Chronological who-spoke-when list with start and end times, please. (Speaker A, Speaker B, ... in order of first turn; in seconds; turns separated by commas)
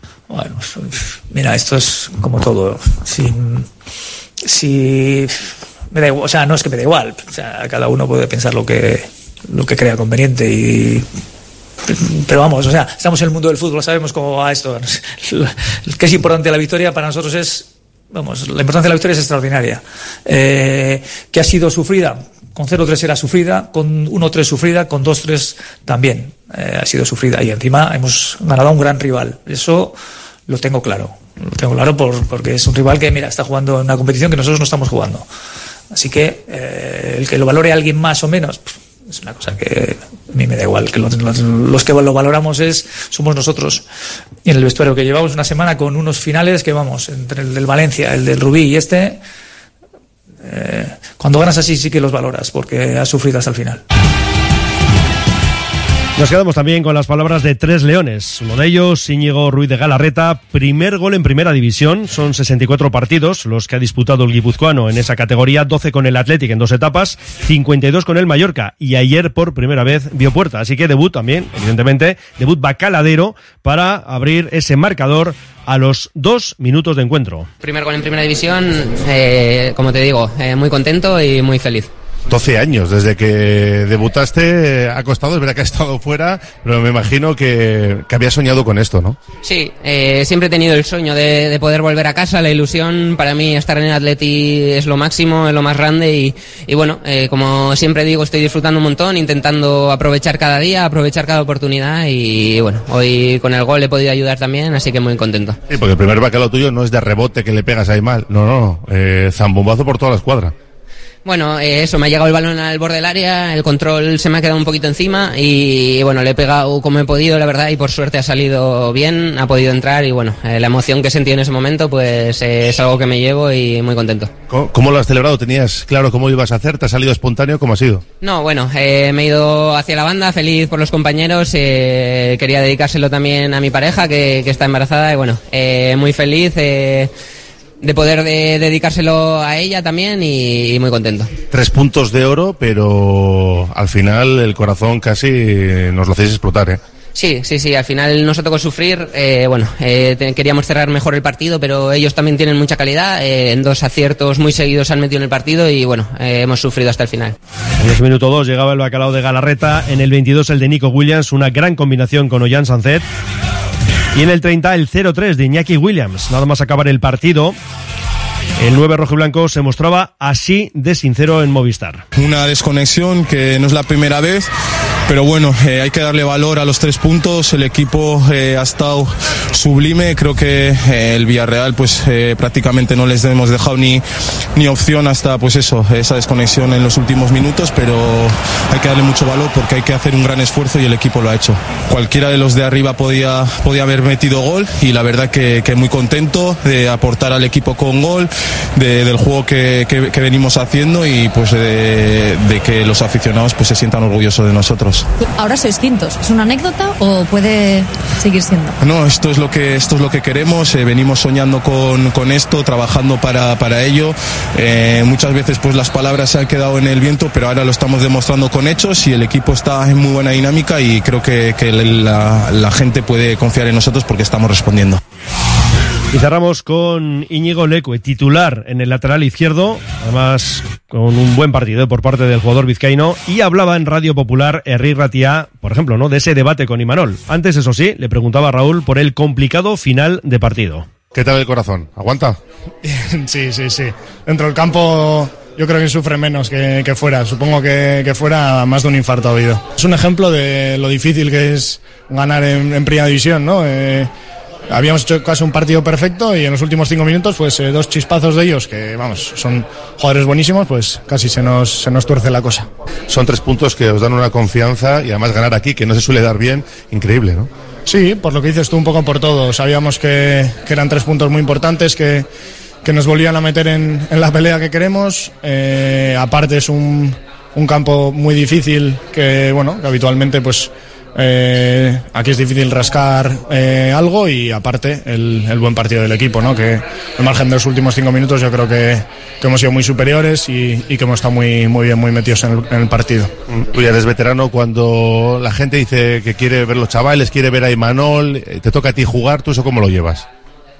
Speaker A: 0.3-3.7, Speaker A: 4.4-11.1, Speaker A: 11.8-35.3, Speaker A: 35.9-43.8, Speaker A: 44.4-49.2, Speaker A: 50.4-53.8, Speaker B: 56.1-77.5, Speaker C: 77.6-81.9, Speaker D: 82.3-89.2, Speaker C: 89.4-105.6, Speaker D: 105.7-110.5, Speaker C: 111.2-124.3, Speaker D: 124.5-128.0, Speaker C: 128.2-137.1, Speaker C: 137.8-141.3, Speaker D: 141.5-146.8, Speaker C: 147.1-157.3, Speaker B: 157.8-163.0, Speaker B: 164.1-167.6, Speaker B: 168.6-172.0, Speaker E: 172.1-174.5, Speaker E: 175.1-184.0, Speaker E: 184.5-205.1, Speaker F: 205.2-208.8, Speaker E: 208.8-225.0, Speaker B: 226.1-240.9, Speaker D: 241.1-242.4, Speaker G: 242.8-254.1, Speaker G: 254.7-262.7, Speaker D: 263.1-267.5, Speaker G: 267.9-272.2, Speaker G: 272.8-293.3, Speaker D: 293.5-300.2